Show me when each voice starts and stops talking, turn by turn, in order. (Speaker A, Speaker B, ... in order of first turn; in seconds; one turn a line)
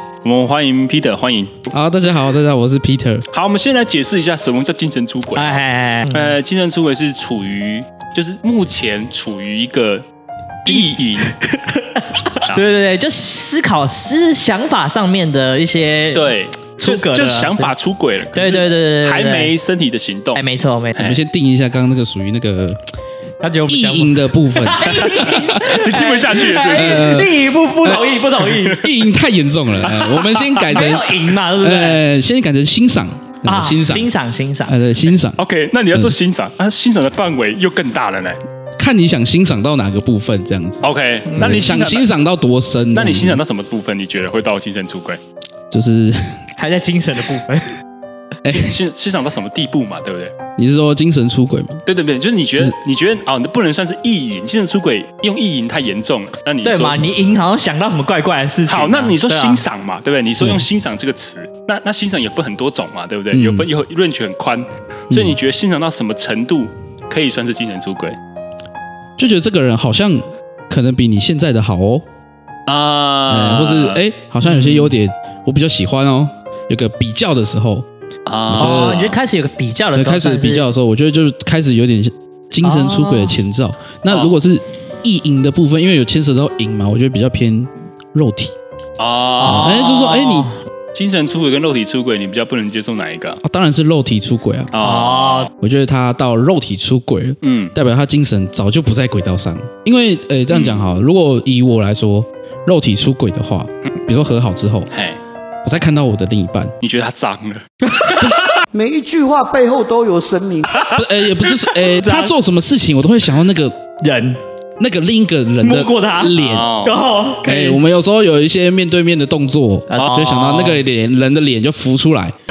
Speaker A: 0.2-1.7
Speaker B: 1.7-3.2
Speaker A: 3.3-10.0
Speaker C: 5.3-6.3
Speaker A: 10.6-11.3
Speaker C: 10.6-17.7
Speaker A: 16.1-20.4
Speaker C: 18.3-19.5
Speaker C: 20.3-21.0
Speaker B: 20.9-22.8
Speaker C: 23.4-28.9
Speaker B: 23.7-25.8
Speaker A: 25.0-27.3
Speaker B: 26.7-28.1
Speaker B: 28.7-34.1
Speaker C: 29.9-32.0
Speaker C: 33.4-34.7
Speaker B: 34.6-35.4
Speaker A: 35.4-38.4
Speaker B: 38.8-43.4
Speaker A: 40.8-42.1
Speaker A: 42.9-45.2
Speaker B: 45.7-46.4
Speaker C: 46.6-47.8
Speaker B: 48.4-48.8
Speaker A: 48.5-50.3
Speaker B: 50.6-51.8
Speaker A: 51.9-57.0
Speaker C: 56.6-59.6
Speaker A: 58.7-68.2
Speaker B: 60.4-60.6
Speaker B: 63.3-63.7
Speaker B: 65.1-65.4
Speaker B: 69.2-72.0
Speaker A: 72.7-74.0
Speaker B: 73.3-77.8
Speaker C: 74.4-74.9
Speaker A: 78.2-79.2
Speaker B: 78.5-79.1
Speaker C: 78.5-80.7
Speaker B: 79.9-88.5
Speaker C: 82.6-83.4
Speaker A: 84.1-84.3
Speaker A: 89.0-89.8
Speaker C: 89.4-90.6
Speaker B: 89.4-90.5
Speaker A: 90.9-93.4
Speaker B: 93.4-94.7
Speaker A: 94.7-95.5
Speaker C: 94.8-95.5
Speaker B: 95.6-104.9
Speaker A: 97.4-97.8
Speaker A: 100.5-100.8
Speaker A: 104.9-105.2
Speaker B: 105.6-106.7
Speaker A: 106.8-108.1
Speaker C: 107.9-108.6
Speaker D: 108.7-110.7
Speaker B: 110.9-113.8
Speaker C: 111.9-112.3
Speaker C: 114.0-114.4
Speaker B: 114.8-116.8
Speaker C: 115.6-117.8
Speaker A: 116.3-117.0
Speaker B: 117.4-122.3
Speaker C: 119.9-120.8
Speaker A: 120.0-120.6